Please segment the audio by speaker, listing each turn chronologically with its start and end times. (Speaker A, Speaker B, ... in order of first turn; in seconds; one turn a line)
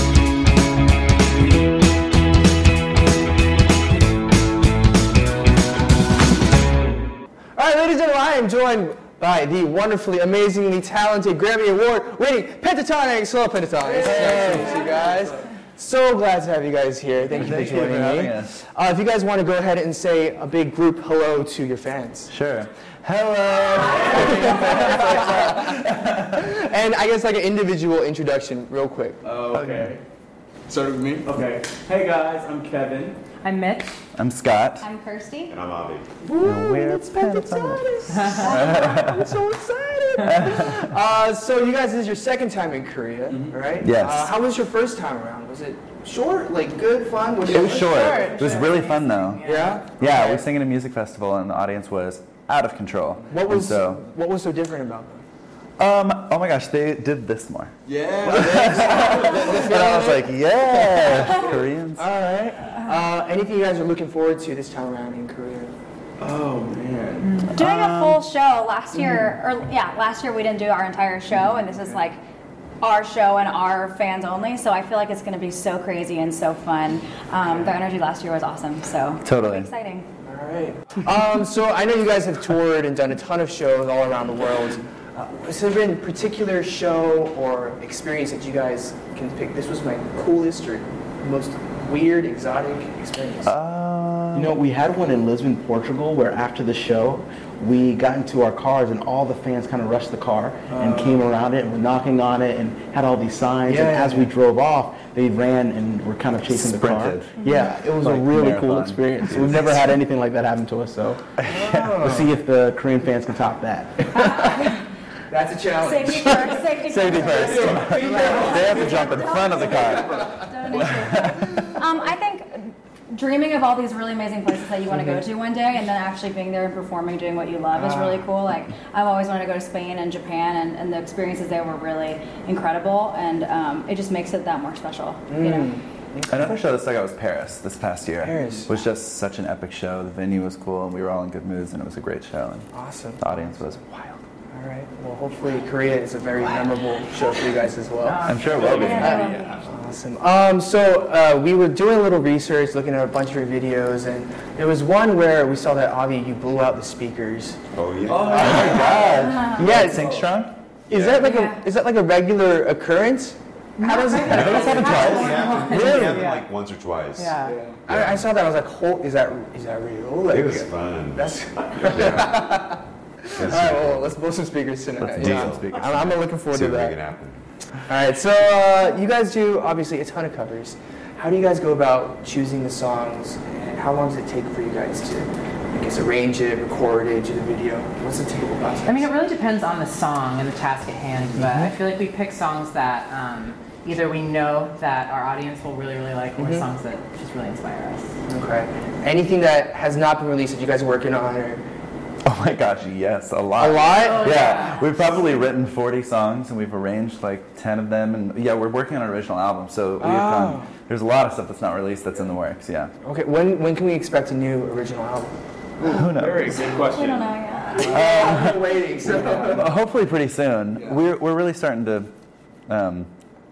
Speaker A: 7.5-22.3
Speaker B: 13.8-15.4
Speaker C: 14.0-14.8
Speaker C: 17.3-18.6
Speaker C: 22.3-26.5
Speaker A: 23.9-29.2
Speaker B: 24.0-24.9
Speaker B: 29.2-30.0
Speaker C: 29.5-29.9
Speaker B: 30.7-33.2
Speaker D: 33.4-33.9
Speaker C: 34.1-34.9
Speaker E: 34.8-35.5
Speaker F: 35.5-36.1
Speaker A: 36.2-48.1
Speaker C: 36.4-37.8
Speaker C: 38.4-39.2
Speaker E: 38.4-39.0
Speaker C: 40.2-40.9
Speaker B: 43.3-43.6
Speaker C: 43.8-44.3
Speaker B: 47.5-47.9
Speaker C: 47.5-49.4
Speaker D: 47.6-49.9
Speaker A: 49.4-50.4
Speaker C: 50.0-54.0
Speaker A: 53.3-55.2
Speaker C: 55.8-62.1
Speaker B: 57.9-59.9
Speaker A: 58.6-65.7
Speaker B: 66.2-67.5
Speaker D: 67.2-67.5
Speaker C: 67.5-68.2
Speaker E: 67.5-72.2
Speaker E: 72.8-80.1
Speaker C: 79.2-79.7
Speaker A: 80.2-93.5
Speaker C: 93.4-94.6
Speaker B: 94.3-111.2
Speaker A: 100.8-101.1
Speaker A: 103.7-104.3
Speaker C: 106.5-107.4
Speaker C: 107.9-109.9
Speaker A: 111.5-112.3
Speaker C: 111.5-112.0
Speaker B: 112.0-114.2
Speaker A: 114.2-114.5
Speaker E: 114.3-114.7
Speaker A: 115.3-116.6
Speaker E: 115.8-135.8
Speaker C: 116.8-121.7
Speaker B: 117.3-121.7
Speaker A: 117.9-118.6
Speaker A: 127.7-128.2
Speaker A: 135.3-136.6
Speaker C: 136.3-142.7
Speaker A: 138.2-138.7
Speaker A: 142.7-157.6
Speaker C: 143.2-143.9
Speaker D: 148.0-149.3
Speaker C: 148.2-149.3
Speaker B: 148.6-149.3
Speaker E: 148.6-149.6
Speaker F: 157.7-158.7
Speaker B: 158.1-160.3
Speaker C: 158.2-160.5
Speaker A: 158.3-158.9
Speaker E: 159.1-159.6
Speaker A: 159.6-160.2
Speaker F: 160.9-161.3
Speaker A: 160.9-166.3
Speaker E: 161.2-161.6
Speaker D: 163.8-166.5
Speaker C: 164.2-165.4
Speaker F: 164.3-167.3
Speaker D: 167.2-167.6
Speaker B: 167.4-167.8
Speaker A: 167.8-176.9
Speaker F: 167.9-168.2
Speaker F: 170.3-172.5
Speaker F: 173.3-174.2
Speaker C: 175.0-176.1
Speaker F: 175.1-177.4
Speaker A: 177.9-189.1
Speaker D: 188.8-198.1
Speaker A: 191.3-191.7
Speaker A: 196.4-196.7
Speaker A: 198.3-201.6
Speaker C: 202.2-212.9
Speaker A: 203.6-204.6
Speaker D: 203.8-205.1
Speaker A: 210.0-210.7
Speaker A: 213.0-215.3
Speaker B: 215.8-217.3
Speaker C: 215.8-216.6
Speaker E: 216.7-218.1
Speaker A: 217.7-219.7
Speaker C: 217.8-218.7
Speaker B: 219.1-219.6
Speaker C: 219.4-222.1
Speaker B: 220.7-221.0
Speaker C: 222.7-223.1